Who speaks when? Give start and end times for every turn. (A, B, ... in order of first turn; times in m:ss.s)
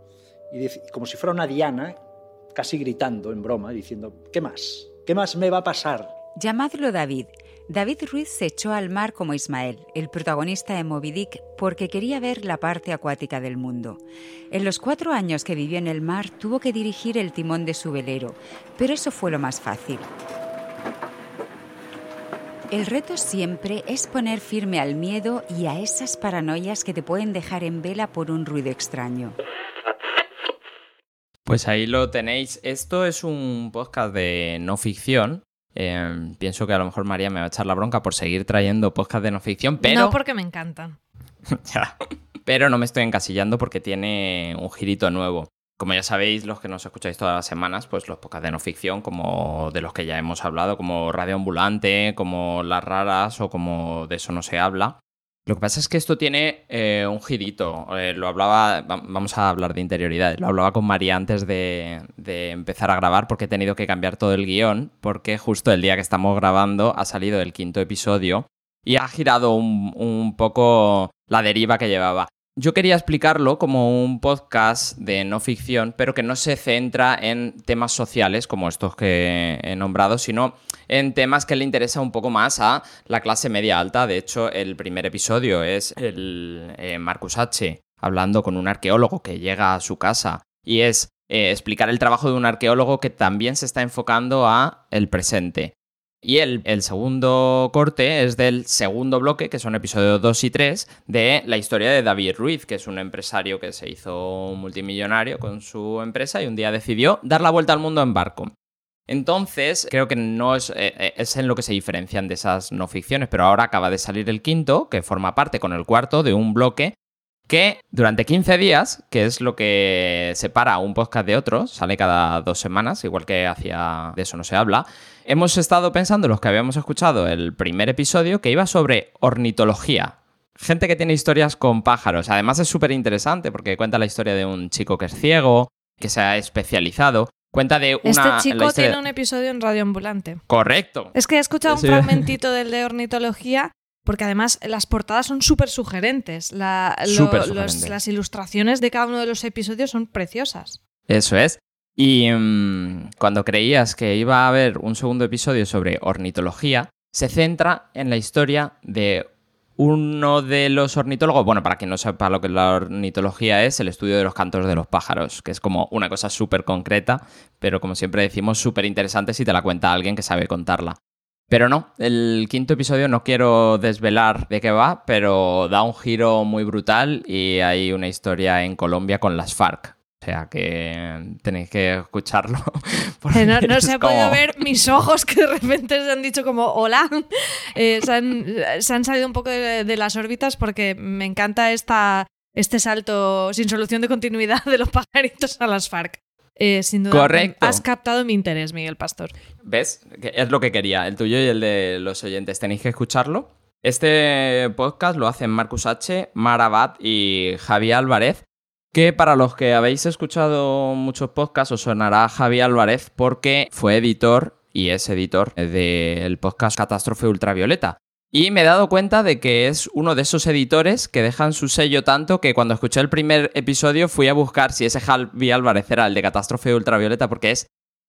0:00.5-0:02.0 A
0:02.5-0:06.1 A
0:06.4-0:20.1 B
0:22.7-0:29.3 B
0:31.4-0:40.2 C
0:39.8-0:41.0 D
0:41.6-0:41.9 C
0:42.4-0:55.0 C
0:55.5-1:35.7 C
1:36.2-1:48.5 C
1:49.1-1:56.9 C
1:57.5-2:19.0 C
2:18.0-2:20.4 D
2:20.5-2:21.1 C
2:21.1-2:30.8 D
2:21.7-2:22.2 C
2:27.1-2:27.9 C
2:31.1-2:39.2 C
2:39.8-2:51.0 C
2:51.5-3:04.5 C
3:03.3-3:19.3 D
3:17.1-3:17.8 C
3:19.6-3:28.4 C
3:28.9-3:47.6 C